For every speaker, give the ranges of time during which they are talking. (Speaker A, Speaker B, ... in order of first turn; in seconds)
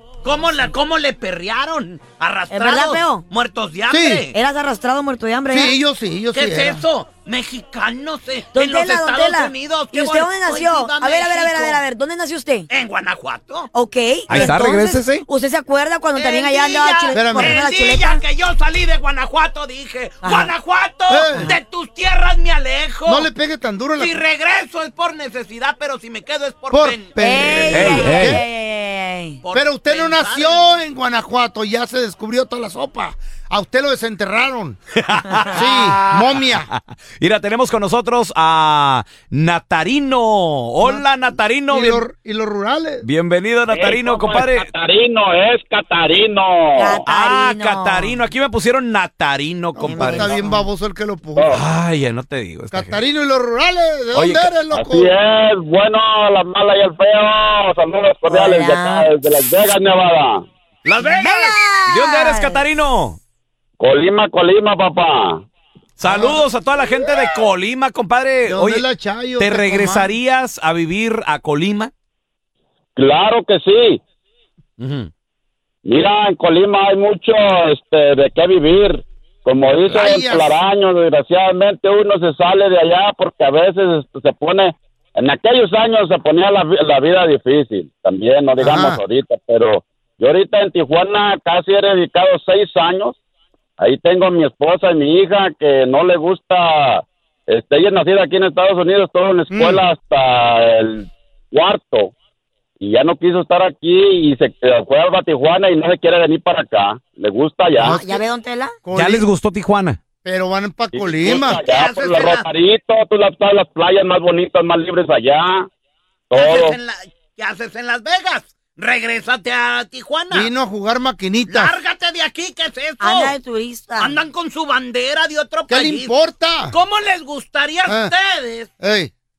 Speaker A: 0.2-4.3, 6.3-11.8, 12.7-13.7, 16.1-23.3, 24.0-28.2, 29.4-30.7, 61.0-61.5, 111.2-112.5, 116.3-120.5, 121.5-123.4, 124.0-126.1, 126.7-128.7
Speaker B: 2.5-3.3, 4.3-5.8, 8.5-12.7, 13.7-18.2, 20.2-20.5, 27.2-29.4, 46.8-48.2, 49.9-50.7, 58.3-59.1, 61.0-62.7, 107.8-108.8, 123.0-124.2
Speaker C: 3.9-4.3, 5.5-6.8, 17.1-17.6, 21.1-21.5, 23.1-24.2, 26.7-28.4, 29.5-34.8, 35.5-36.7, 41.7-43.0, 49.8-51.6, 52.7-55.2, 66.0-66.5, 68.4-70.2, 79.9-80.6, 88.6-89.0, 99.5-99.9, 107.8-108.2, 108.8-109.3, 110.2-111.6, 120.3-121.8, 125.7-126.8, 127.9-128.1, 128.8-129.1
Speaker D: 14.3-15.2, 27.7-28.4, 35.0-42.1, 43.0-44.7, 47.1-50.4, 51.5-53.0, 54.1-54.5, 60.9-63.2, 66.0-68.9, 69.4-71.9, 74.8-75.1, 108.9-110.0
Speaker E: 43.7-47.0, 51.4-51.6, 54.7-60.4, 63.8-65.4, 73.0-74.0, 75.8-93.2, 93.8-102.1, 102.8-108.0, 110.9-115.7, 116.3-116.8